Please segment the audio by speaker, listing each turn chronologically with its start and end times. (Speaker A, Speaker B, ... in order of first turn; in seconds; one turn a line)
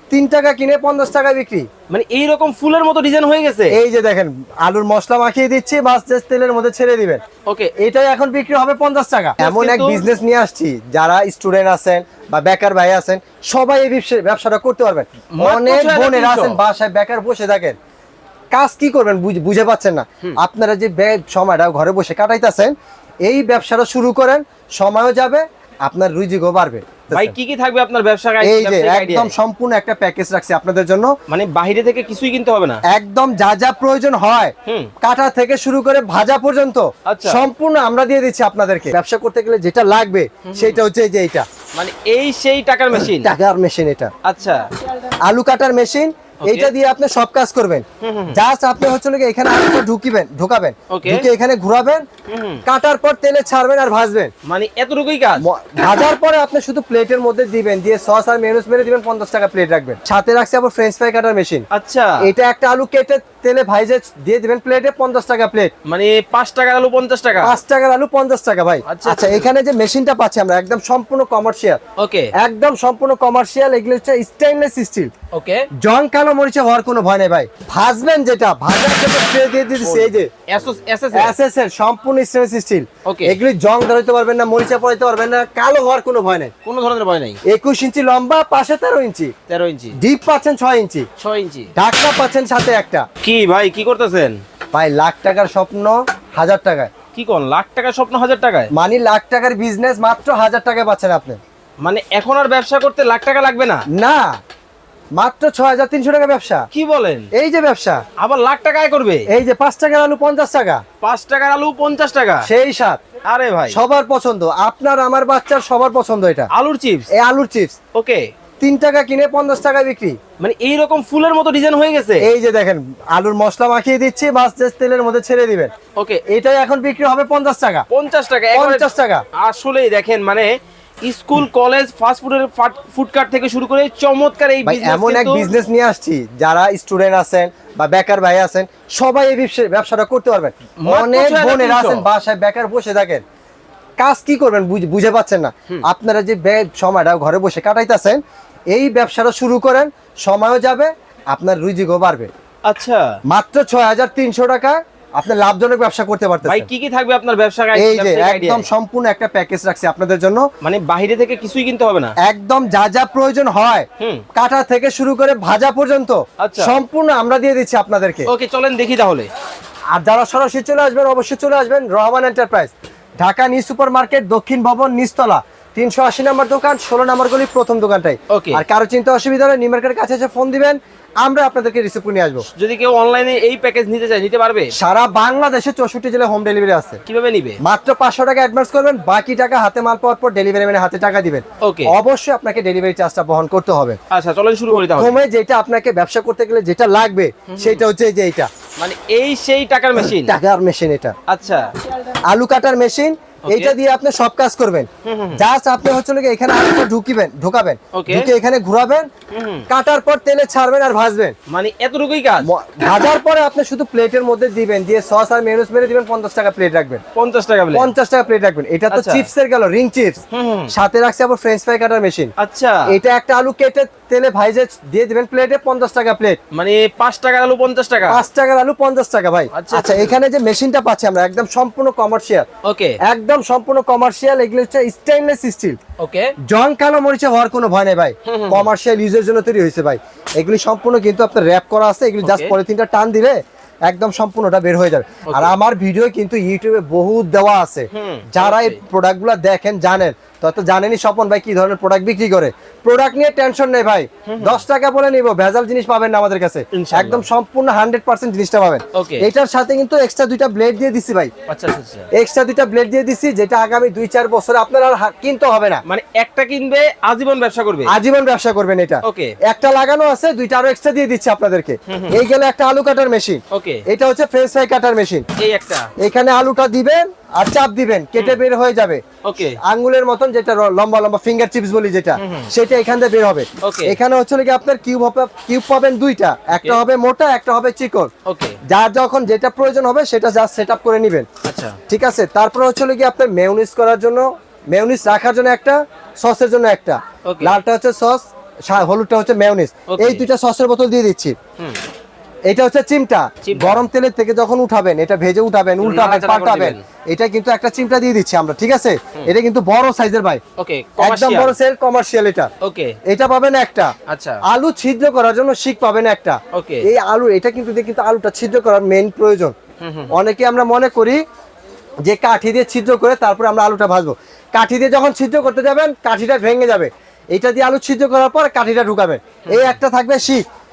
Speaker A: 0.1-1.7
Speaker B: 1.9-3.8
Speaker A: 3.7-7.2
Speaker B: 7.5-7.7
Speaker A: 7.8-17.8
Speaker B: 9.4-10.1
Speaker B: 15.3-16.6
Speaker A: 18.5-22.7
Speaker A: 23.2-27.3
Speaker B: 27.1-29.4
Speaker A: 28.4-31.1
Speaker B: 31.3-32.8
Speaker A: 32.9-41.5
Speaker B: 34.7-34.9
Speaker B: 37.1-37.5
Speaker B: 40.5-40.8
Speaker B: 41.8-43.3
Speaker A: 43.0-44.1
Speaker B: 44.2-44.7
Speaker A: 45.3-52.0
Speaker B: 46.4-46.7
Speaker B: 48.0-48.4
Speaker B: 50.9-51.3
Speaker B: 52.3-52.6
Speaker A: 52.7-54.3
Speaker B: 54.5-55.4
Speaker A: 55.4-61.7
Speaker B: 61.7-62.2
Speaker A: 62.2-65.7
Speaker B: 65.9-67.6
Speaker A: 67.4-71.8
Speaker B: 68.9-69.5
Speaker B: 72.0-72.3
Speaker A: 72.4-75.1
Speaker B: 75.3-75.7
Speaker A: 75.8-80.3
Speaker B: 79.8-81.4
Speaker A: 81.1-86.5
Speaker B: 83.0-83.4
Speaker B: 86.7-87.4
Speaker A: 87.5-89.3
Speaker B: 89.5-90.0
Speaker A: 90.0-91.1
Speaker B: 91.2-91.7
Speaker A: 91.8-93.1
Speaker B: 93.2-94.4
Speaker A: 94.7-96.9
Speaker B: 97.2-98.7
Speaker A: 98.7-101.4
Speaker B: 101.8-103.8
Speaker A: 103.9-104.3
Speaker A: 105.2-106.7
Speaker B: 106.7-107.3
Speaker A: 107.3-108.0
Speaker B: 108.2-109.3
Speaker A: 109.3-110.8
Speaker B: 111.0-112.5
Speaker A: 112.4-113.0
Speaker B: 113.3-113.8
Speaker A: 113.7-116.5
Speaker B: 116.5-117.1
Speaker A: 117.2-117.8
Speaker B: 118.0-118.3
Speaker A: 118.6-120.2
Speaker B: 120.4-122.3
Speaker A: 122.2-125.7
Speaker B: 126.0-126.2
Speaker A: 126.3-127.9
Speaker B: 127.9-135.5
Speaker A: 128.5-129.2
Speaker A: 134.7-143.2
Speaker B: 140.8-142.1
Speaker A: 144.0-148.2
Speaker A: 148.7-152.3
Speaker B: 152.7-153.1
Speaker A: 153.3-156.7
Speaker B: 156.4-158.7
Speaker A: 157.8-160.4
Speaker B: 160.6-162.1
Speaker A: 162.2-168.3
Speaker B: 164.0-164.2
Speaker B: 166.4-166.8
Speaker B: 168.3-169.3
Speaker A: 169.9-182.4
Speaker B: 178.3-178.6
Speaker B: 182.6-184.7
Speaker A: 184.7-187.0
Speaker B: 187.1-187.6
Speaker A: 187.6-194.0
Speaker B: 191.6-191.9
Speaker B: 194.1-195.2
Speaker A: 194.7-198.5
Speaker B: 197.5-197.8
Speaker B: 198.8-200.3
Speaker A: 200.2-201.2
Speaker B: 201.3-201.7
Speaker A: 202.3-209.1
Speaker B: 203.5-203.7
Speaker B: 205.0-205.4
Speaker B: 207.9-208.3
Speaker B: 209.3-209.7
Speaker A: 209.7-211.4
Speaker B: 211.5-212.5
Speaker A: 212.4-217.0
Speaker B: 217.2-217.9
Speaker A: 217.7-220.2
Speaker B: 218.9-219.3
Speaker B: 220.3-220.7
Speaker A: 220.7-222.3
Speaker B: 222.4-222.9
Speaker A: 222.9-226.4
Speaker B: 226.5-228.2
Speaker A: 228.1-232.5
Speaker B: 229.5-230.2
Speaker B: 232.7-233.0
Speaker A: 233.1-235.8
Speaker B: 236.0-236.3
Speaker A: 236.4-261.3
Speaker B: 238.3-238.7
Speaker B: 242.2-242.5
Speaker B: 245.3-245.6
Speaker B: 247.9-248.8
Speaker B: 254.3-254.6
Speaker B: 256.7-257.3
Speaker B: 258.9-259.3
Speaker B: 261.5-262.1
Speaker A: 262.1-265.8
Speaker B: 265.9-267.9
Speaker A: 267.9-275.3
Speaker B: 269.1-269.4
Speaker B: 271.9-272.2
Speaker B: 273.5-273.8
Speaker B: 275.4-275.9
Speaker A: 276.0-279.0
Speaker B: 279.2-279.6
Speaker A: 279.6-288.1
Speaker B: 282.2-282.5
Speaker B: 283.6-284.0
Speaker B: 288.3-288.6
Speaker A: 288.7-291.3
Speaker B: 291.4-291.8
Speaker A: 291.9-301.4
Speaker B: 297.3-297.6
Speaker B: 299.9-300.2
Speaker A: 302.5-310.4
Speaker B: 303.4-303.8
Speaker B: 305.8-306.8
Speaker B: 310.6-311.6
Speaker A: 311.0-312.5
Speaker B: 312.6-313.0
Speaker A: 313.1-313.9
Speaker B: 314.1-314.4
Speaker A: 314.4-319.6
Speaker B: 316.5-316.9
Speaker B: 319.8-320.1
Speaker A: 320.1-321.2
Speaker A: 322.1-330.4
Speaker B: 329.5-329.8